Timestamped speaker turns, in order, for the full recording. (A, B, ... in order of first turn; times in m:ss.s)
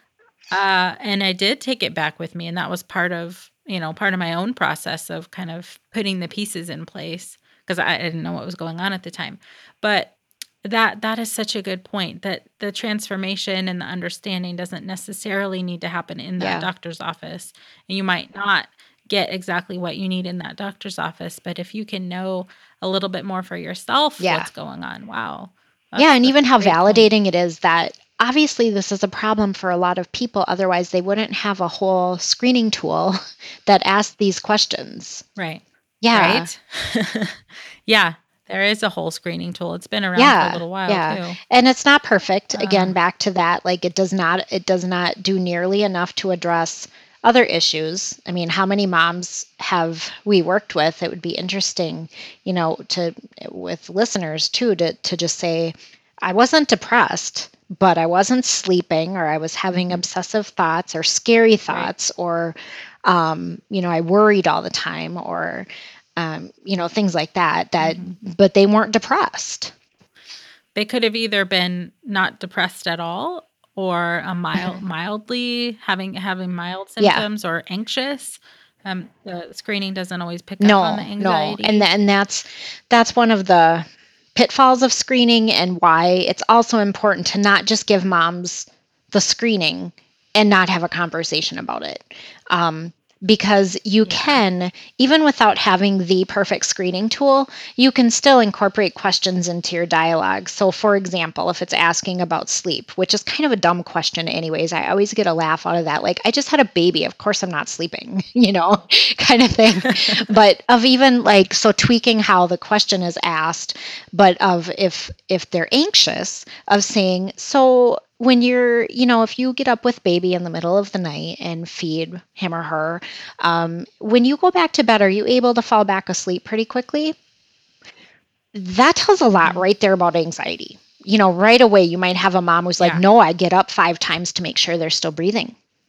0:00.5-0:27.1 A
0:16.4-0:16.7 B
0:24.2-0:24.5 B
0:26.0-0:35.2 B
0:35.4-0:35.6 A
0:36.0-0:36.5 B
0:36.1-0:41.4 A
0:40.2-1:09.7 B
0:42.5-0:43.0 A
0:59.7-1:00.0 A
1:01.7-1:01.9 A
1:07.8-1:08.2 A
1:10.7-1:21.9 A
1:17.0-1:17.2 B
1:20.6-2:07.1 B
1:34.0-1:34.4 A
2:08.5-2:15.5 B